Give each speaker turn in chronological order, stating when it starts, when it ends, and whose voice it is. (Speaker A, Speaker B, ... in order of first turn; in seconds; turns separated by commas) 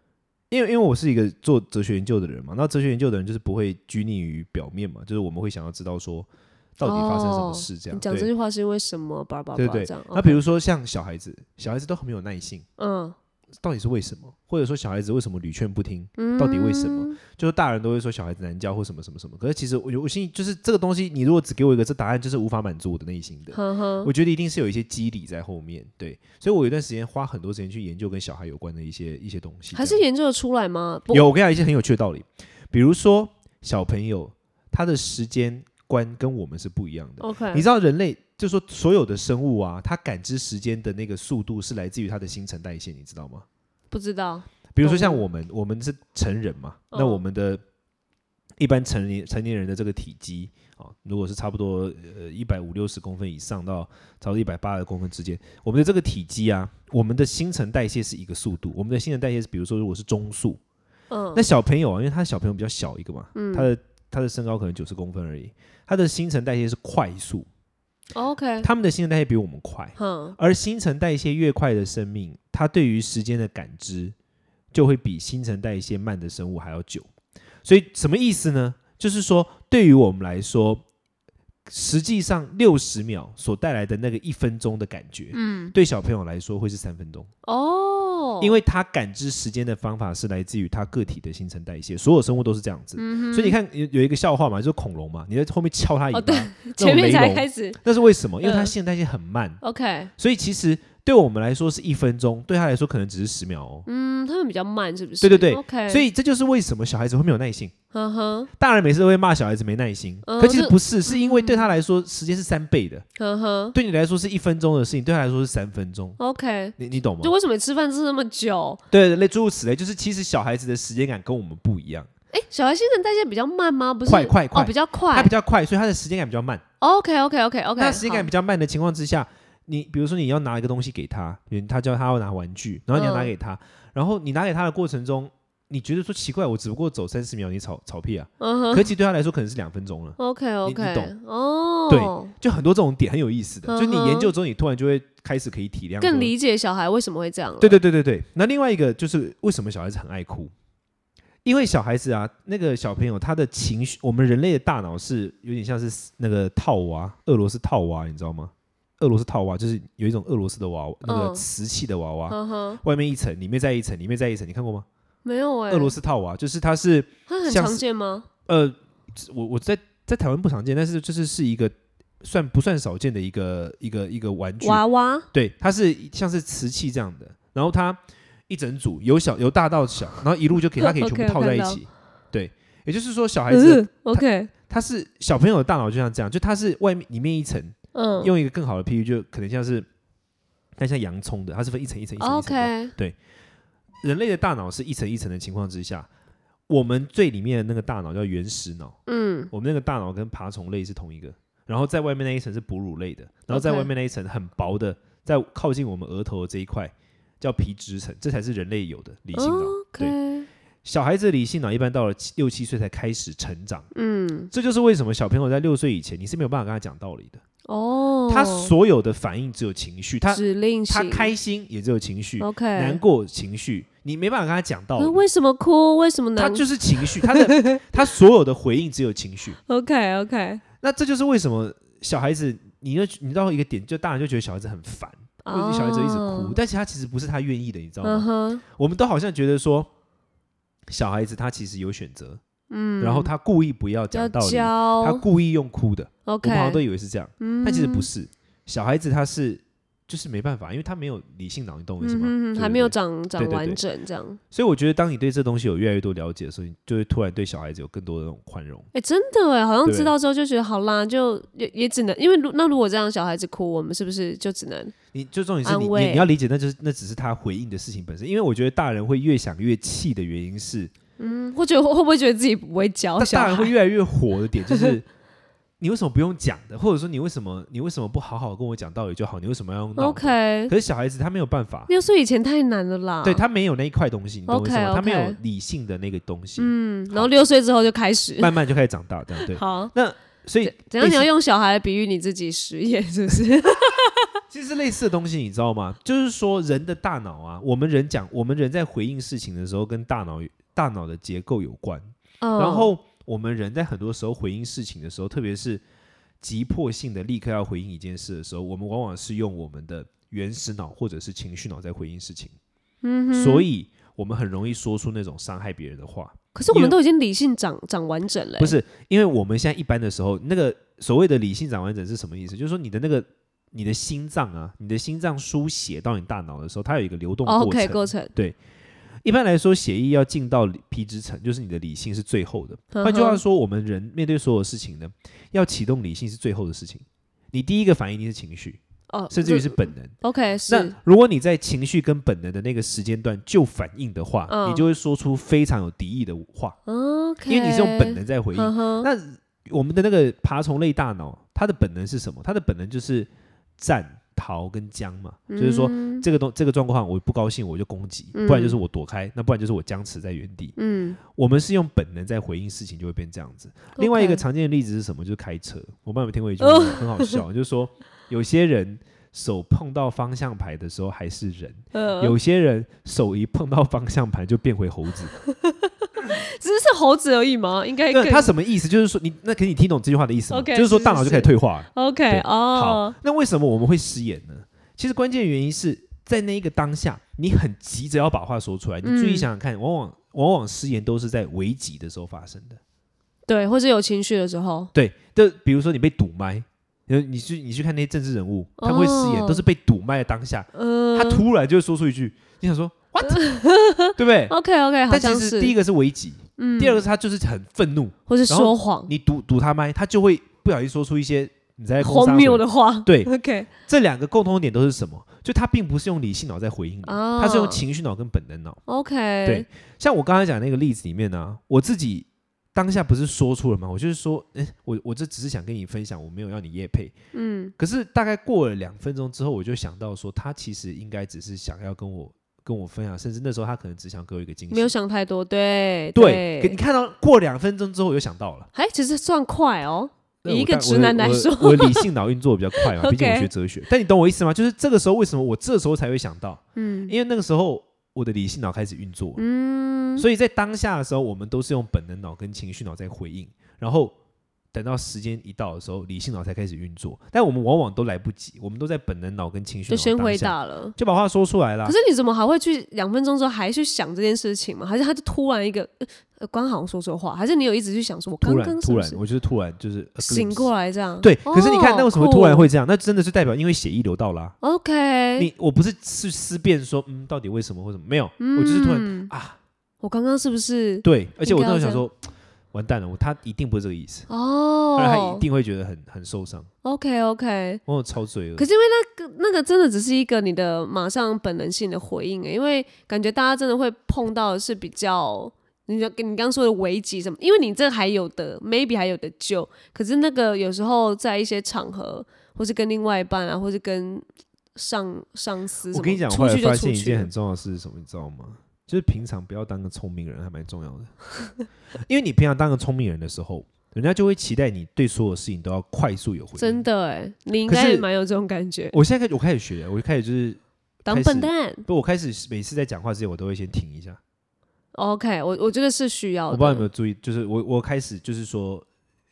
Speaker A: 0.5-8.3, Speaker B: 6.8-10.4, Speaker A: 9.5-12.7, Speaker B: 12.8-13.2, Speaker A: 13.6-30.0, Speaker B: 16.2-17.2, Speaker B: 23.5-24.1, Speaker B: 29.7-31.2, Speaker A: 31.1-43.4, Speaker B: 37.2-37.6, Speaker B: 43.9-45.2, Speaker A: 44.7-47.6, Speaker B: 46.9-47.2, Speaker A: 48.6-60.6, Speaker B: 61.1-61.4, Speaker A: 61.3-67.5, Speaker B: 63.3-63.7, Speaker B: 68.1-68.7, Speaker A: 68.6-74.1, Speaker B: 70.0-70.4, Speaker A: 74.7-77.1, Speaker A: 77.6-80.8, Speaker A: 81.7-87.3, Speaker B: 85.3-85.7, Speaker B: 87.4-88.6, Speaker A: 88.4-99.6, Speaker B: 93.0-93.5, Speaker B: 96.1-97.8, Speaker B: 98.4-98.7, Speaker B: 99.6-100.1, Speaker A: 100.2-103.9, Speaker B: 103.8-106.0, Speaker A: 105.2-107.7, Speaker B: 107.9-108.5, Speaker A: 108.6-113.0, Speaker B: 110.2-111.7, Speaker B: 113.2-113.8, Speaker A: 113.7-116.2, Speaker B: 116.2-118.8, Speaker A: 116.8-117.3, Speaker A: 118.9-122.1, Speaker B: 122.3-125.3, Speaker A: 124.0-126.6, Speaker B: 126.8-128.3, Speaker A: 127.8-141.1, Speaker B: 132.9-133.3, Speaker B: 138.4-138.9, Speaker B: 140.2-142.3, Speaker A: 141.9-146.3, Speaker B: 143.7-144.3, Speaker B: 146.0-147.8, Speaker A: 147.6-150.5, Speaker A: 151.4-164.8, Speaker B: 161.1-161.4, Speaker B: 162.3-162.8, Speaker B: 165.2-165.9, Speaker A: 165.7-167.8, Speaker B: 167.3-168.3, Speaker A: 168.4-189.8, Speaker B: 174.6-175.3, Speaker B: 180.8-181.8, Speaker B: 183.5-184.5, Speaker B: 187.9-188.3, Speaker A: 190.8-193.2, Speaker B: 192.2-192.9, Speaker A: 194.0-196.1, Speaker A: 196.7-198.9, Speaker B: 199.1-199.5, Speaker A: 199.5-210.2, Speaker B: 203.5-203.9, Speaker B: 209.3-210.5, Speaker A: 210.8-213.9, Speaker B: 213.9-214.5, Speaker A: 214.5-217.4, Speaker B: 217.7-218.7, Speaker A: 218.3-225.2, Speaker B: 220.3-221.3, Speaker B: 222.4-223.0, Speaker B: 225.0-227.8, Speaker A: 226.4-229.6, Speaker B: 229.7-230.6, Speaker A: 230.8-239.9, Speaker B: 235.4-236.6, Speaker B: 238.0-238.6, Speaker A: 240.9-242.4, Speaker B: 242.7-243.3, Speaker A: 243.0-253.8, Speaker B: 244.1-245.2, Speaker B: 246.2-246.8, Speaker B: 247.4-248.1, Speaker B: 252.0-254.4, Speaker A: 254.5-258.9, Speaker B: 258.9-264.9, Speaker A: 259.8-260.1, Speaker A: 265.1-270.9, Speaker B: 265.6-266.3, Speaker B: 271.2-273.7, Speaker A: 273.2-275.1, Speaker A: 275.8-281.9, Speaker B: 280.0-280.7, Speaker B: 281.9-283.4, Speaker A: 283.2-287.4, Speaker B: 284.5-285.4, Speaker B: 286.6-288.5, Speaker A: 288.4-291.3, Speaker B: 289.4-289.9, Speaker B: 290.6-294.3, Speaker A: 294.5-305.8, Speaker B: 302.4-302.9, Speaker A: 306.4-312.5, Speaker B: 313.0-313.6, Speaker A: 313.3-317.0, Speaker B: 316.5-318.7, Speaker A: 318.6-328.6, Speaker B: 327.4-328.3, Speaker A: 329.2-338.8, Speaker B: 332.9-333.4, Speaker B: 339.1-340.9, Speaker A: 339.3-340.1, Speaker A: 340.7-346.8, Speaker B: 344.5-344.8, Speaker B: 346.9-349.1, Speaker A: 347.5-360.8, Speaker B: 355.5-356.2, Speaker B: 358.3-358.8, Speaker B: 360.8-361.2, Speaker A: 361.3-375.3, Speaker B: 363.9-364.4, Speaker B: 366.6-367.4, Speaker B: 371.9-372.3, Speaker B: 375.5-378.5, Speaker A: 378.1-392.8, Speaker B: 380.5-383.1, Speaker B: 389.0-389.5, Speaker B: 393.5-394.9, Speaker A: 394.9-403.4, Speaker B: 398.8-399.6, Speaker B: 400.7-401.4, Speaker B: 403.3-405.7, Speaker A: 404.1-404.5, Speaker A: 405.1-413.3, Speaker B: 406.6-407.0, Speaker B: 408.3-409.1, Speaker B: 412.0-413.7, Speaker A: 413.8-418.8, Speaker B: 417.0-417.8, Speaker B: 418.9-419.6, Speaker A: 419.4-427.1, Speaker B: 427.3-427.7, Speaker A: 427.8-434.9, Speaker B: 434.7-436.8, Speaker A: 436.1-438.7, Speaker B: 438.7-442.1, Speaker A: 440.4-449.4, Speaker B: 442.8-443.5, Speaker B: 446.8-447.1, Speaker B: 449.4-450.2, Speaker A: 450.2-454.1, Speaker A: 454.7-461.9, Speaker B: 459.9-460.9, Speaker B: 461.8-469.2, Speaker A: 468.4-470.7, Speaker B: 470.2-472.7, Speaker A: 471.2-474.6, Speaker B: 474.6-475.5, Speaker A: 475.4-479.6, Speaker B: 478.4-479.3, Speaker B: 480.0-482.0, Speaker A: 481.0-482.2, Speaker A: 482.7-484.3, Speaker B: 484.3-485.4, Speaker A: 484.9-486.7, Speaker B: 486.8-487.8, Speaker A: 487.9-488.7, Speaker B: 488.6-507.3, Speaker A: 505.9-511.1, Speaker A: 512.1-516.8, Speaker B: 516.6-519.0, Speaker A: 517.6-518.0, Speaker A: 518.9-524.2, Speaker B: 521.0-521.8, Speaker B: 524.9-526.9, Speaker A: 526.5-528.9